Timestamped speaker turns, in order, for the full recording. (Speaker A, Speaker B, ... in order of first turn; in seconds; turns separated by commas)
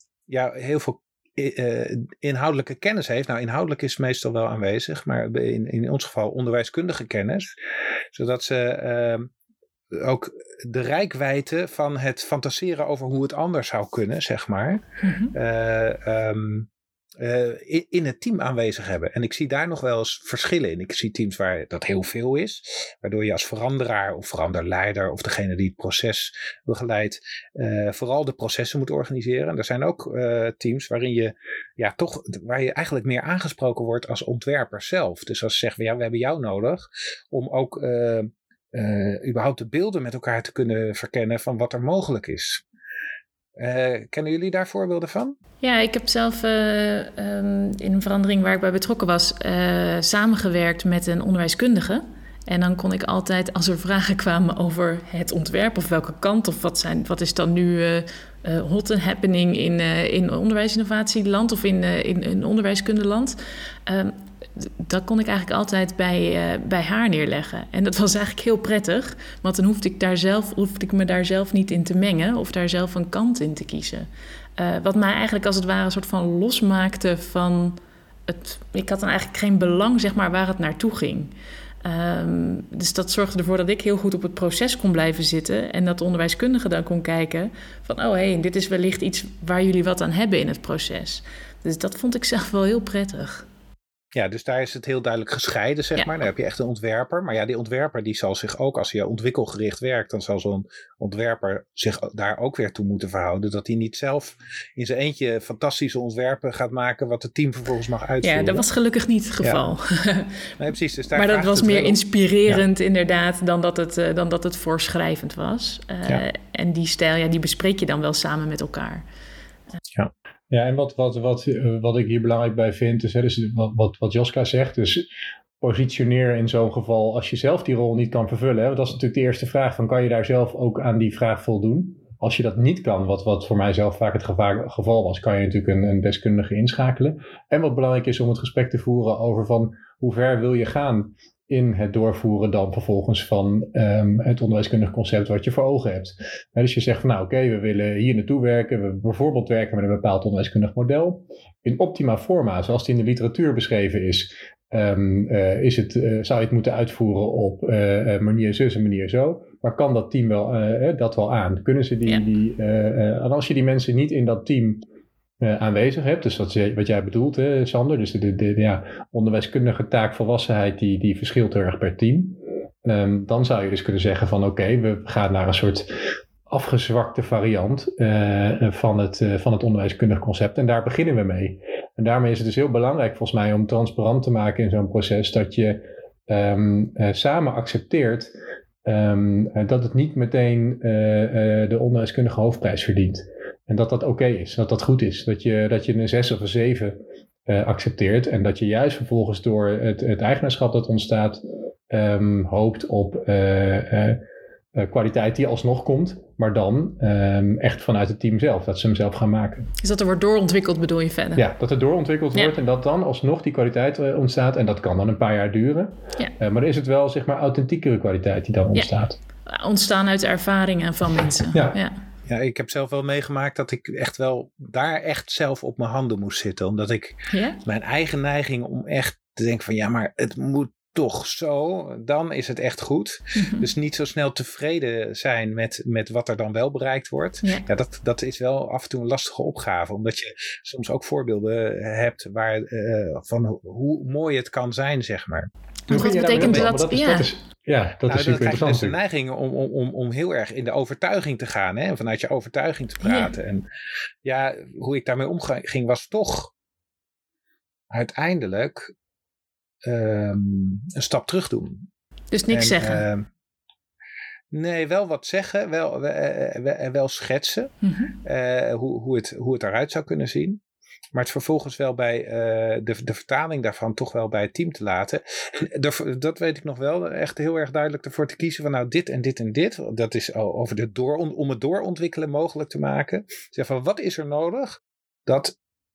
Speaker A: 0.3-7.5, Speaker A: 8.1-9.3, Speaker A: 9.9-14.8, Speaker B: 15.0-15.3, Speaker A: 15.3-16.7, Speaker A: 17.2-42.6, Speaker A: 43.6-45.4, Speaker B: 45.6-81.3, Speaker B: 81.8-93.5, Speaker A: 94.1-108.6, Speaker B: 108.2-110.4, Speaker A: 109.4-109.7, Speaker A: 110.6-112.6, Speaker B: 111.1-119.0, Speaker C: 120.5-125.1, Speaker C: 125.6-164.8, Speaker C: 165.4-188.3, Speaker C: 188.8-204.2, Speaker C: 204.7-209.7, Speaker B: 209.8-211.4, Speaker C: 211.4-219.2, Speaker B: 219.5-222.0, Speaker A: 222.3-245.5, Speaker B: 227.3-227.6, Speaker B: 233.3-233.7, Speaker B: 245.9-247.3, Speaker C: 245.9-249.0, Speaker A: 246.2-246.7, Speaker A: 248.1-253.7, Speaker B: 253.0-253.3, Speaker A: 254.2-256.5, Speaker A: 257.9-258.9, Speaker A: 259.9-261.9, Speaker B: 262.3-263.0, Speaker A: 262.5-263.3, Speaker A: 264.5-270.6, Speaker B: 267.8-268.1, Speaker A: 271.1-285.5